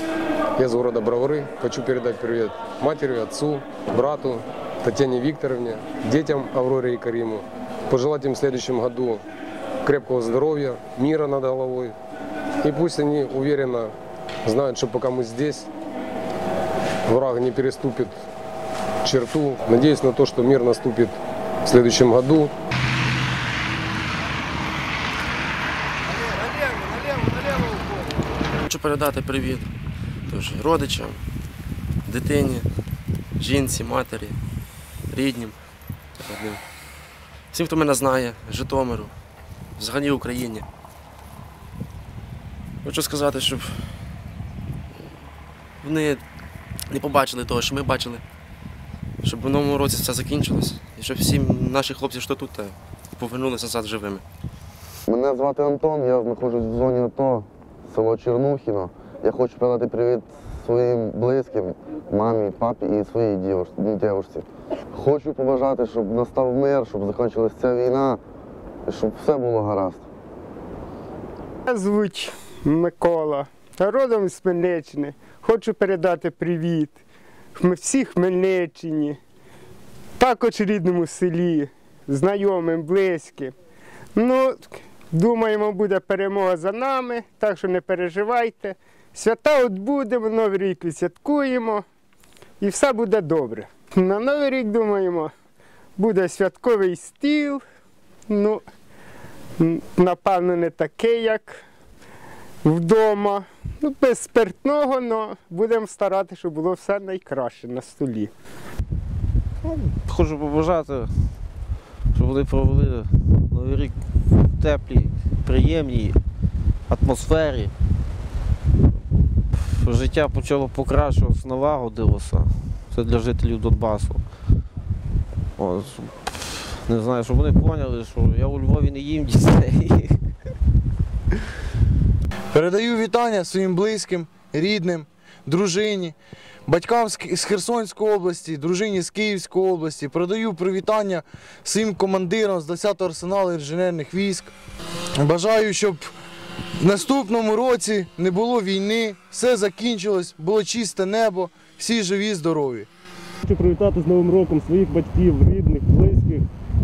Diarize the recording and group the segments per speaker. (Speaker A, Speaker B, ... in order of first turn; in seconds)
Speaker A: 0.6-9.2, 9.8-11.9, 12.6-13.9, 14.4-15.7, 17.1-18.2, 19.0-22.5
Speaker B: 28.6-29.7, 30.3-31.2, 32.0-32.7, 33.4-34.4, 35.1-35.6, 36.2-36.6, 37.5-39.1, 39.8-40.6, 42.8-43.9, 45.8-46.2, 46.9-48.2, 49.2-54.2
Speaker C: 55.1-68.2, 68.9-70.0
Speaker D: 71.7-77.0, 77.5-79.2, 80.2-83.5, 84.1-91.8, 92.6-95.3, 96.0-97.6, 98.3-98.6, 99.6-101.6, 102.6-108.3
Speaker E: 109.6-111.5, 112.1-116.2, 116.9-117.7, 119.5-124.2, 125.6-130.3
Speaker F: 132.5-136.2, 136.7-144.5, 145.2-146.1, 146.8-152.9
Speaker G: 153.4-156.5